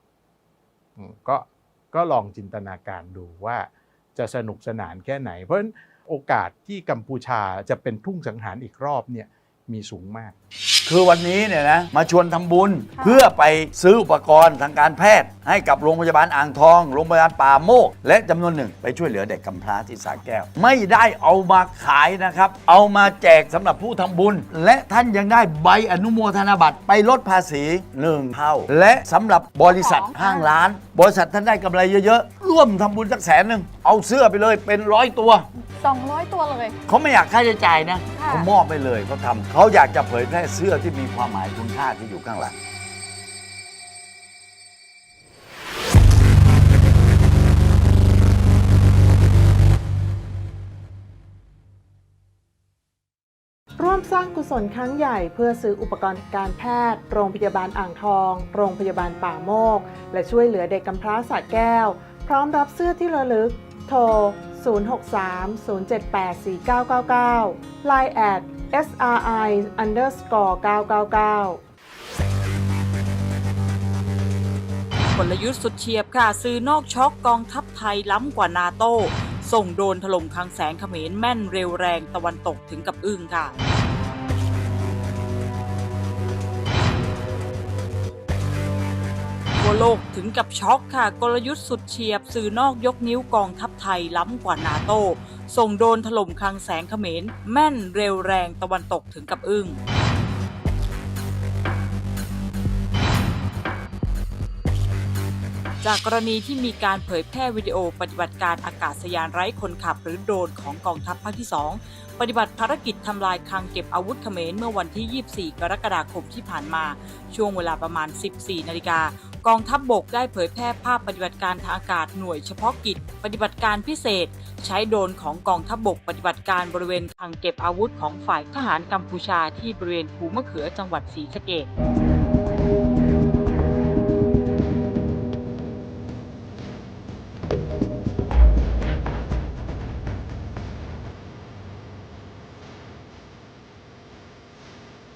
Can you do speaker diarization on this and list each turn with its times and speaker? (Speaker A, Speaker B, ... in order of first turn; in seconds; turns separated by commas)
Speaker A: 1.0-10.3, Speaker B: 10.8-35.5, Speaker C: 12.9-13.2, Speaker C: 29.6-30.6, Speaker C: 35.5-36.8, Speaker B: 36.9-42.5, Speaker C: 38.1-38.5, Speaker D: 53.8-71.6, Speaker E: 75.1-83.5, Speaker E: 89.5-99.8, Speaker E: 105.8-131.7